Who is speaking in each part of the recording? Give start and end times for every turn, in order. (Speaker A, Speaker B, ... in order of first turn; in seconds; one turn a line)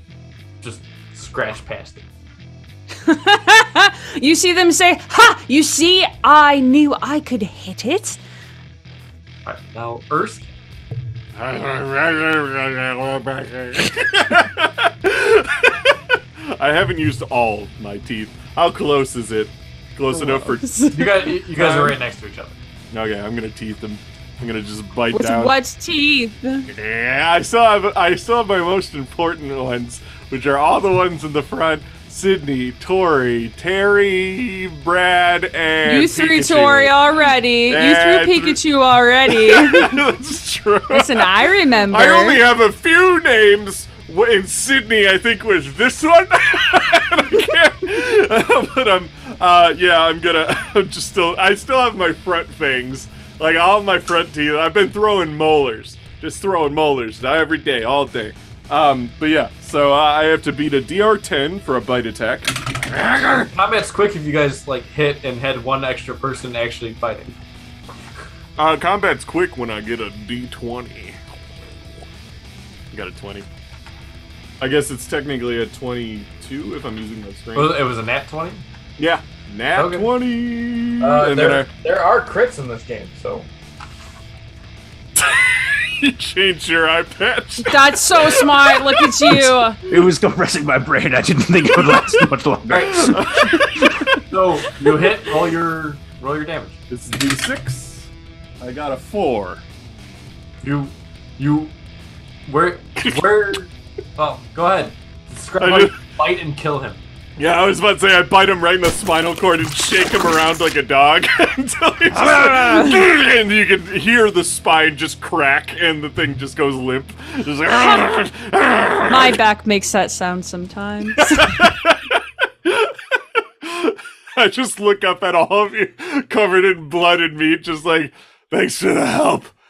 Speaker A: 0.6-2.1
Speaker B: 3.0-8.2
Speaker A: 9.4-10.5
Speaker C: 11.3-20.9
Speaker B: 20.1-21.4
Speaker A: 20.9-22.5
Speaker C: 21.6-22.0
Speaker C: 22.9-25.5
Speaker B: 25.1-26.7
Speaker C: 26.7-37.0
Speaker B: 35.9-40.0
Speaker C: 37.7-38.6
Speaker C: 39.3-63.5
Speaker B: 40.9-42.4
Speaker A: 63.5-67.3
Speaker C: 68.5-71.2
Speaker C: 72.9-73.5
Speaker C: 74.6-77.8
Speaker A: 77.5-78.6
Speaker C: 79.0-81.7
Speaker A: 79.7-80.1
Speaker A: 81.0-83.5
Speaker C: 85.1-89.5
Speaker B: 87.6-89.8
Speaker D: 89.3-94.1
Speaker A: 92.7-93.1
Speaker C: 92.8-93.9
Speaker A: 94.3-96.8
Speaker C: 96.9-98.1
Speaker C: 98.6-99.6
Speaker A: 100.6-101.7
Speaker A: 102.5-107.0
Speaker C: 105.6-106.0
Speaker C: 107.4-119.4
Speaker B: 112.1-113.0
Speaker B: 119.1-121.6
Speaker C: 121.2-129.5